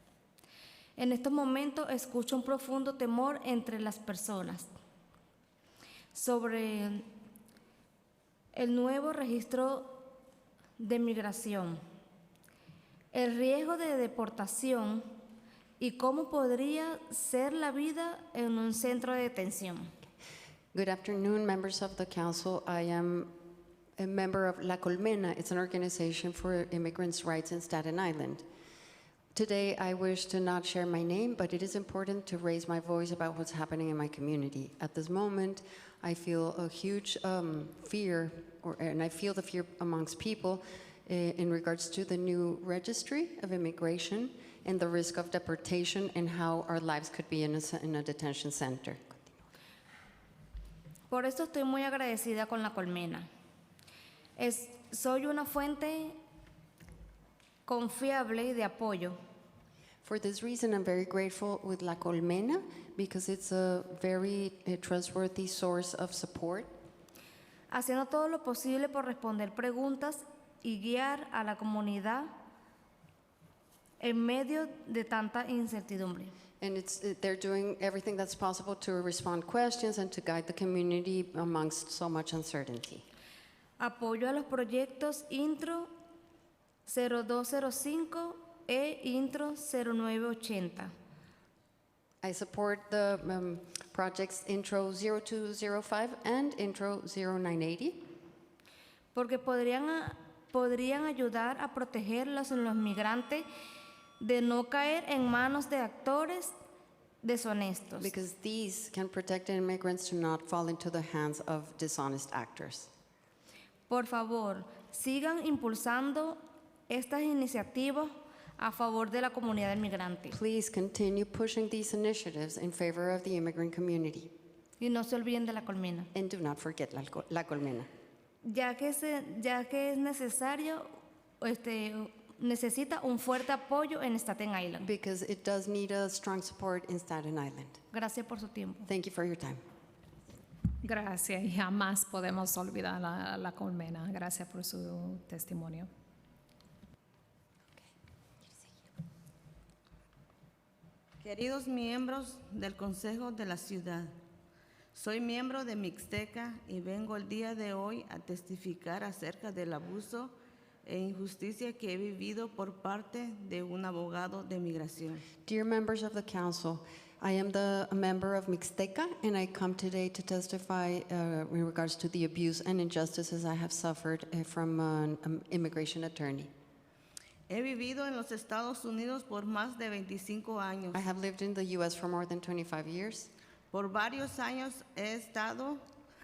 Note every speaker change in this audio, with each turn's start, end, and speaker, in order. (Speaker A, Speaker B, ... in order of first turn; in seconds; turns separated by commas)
Speaker A: 1.0-4.7, Speaker A: 6.1-7.0, Speaker A: 8.5-10.2, Speaker A: 10.8-11.8, Speaker A: 13.1-15.1, Speaker A: 15.8-19.9, Speaker B: 20.7-23.3, Speaker B: 24.0-28.4, Speaker B: 29.3-49.4, Speaker A: 51.1-53.3, Speaker A: 54.4-56.2, Speaker A: 57.7-59.2, Speaker B: 60.0-66.7, Speaker A: 67.7-72.3, Speaker A: 74.0-76.3, Speaker B: 76.6-83.0, Speaker A: 83.8-85.9, Speaker A: 86.9-90.9, Speaker B: 92.2-98.0, Speaker A: 99.1-103.5, Speaker A: 104.2-106.5, Speaker A: 107.2-108.1, Speaker B: 108.0-112.9, Speaker A: 113.9-120.4, Speaker B: 120.3-124.3, Speaker A: 124.8-126.1, Speaker B: 126.1-127.9, Speaker A: 128.4-130.9, Speaker A: 131.4-134.9, Speaker B: 134.8-137.8, Speaker A: 137.9-138.9, Speaker B: 138.9-139.6, Speaker C: 140.8-145.9, Speaker D: 151.2-154.1, Speaker D: 154.9-165.2, Speaker B: 165.4-176.5, Speaker D: 177.5-181.0, Speaker B: 180.9-183.3, Speaker D: 183.7-185.8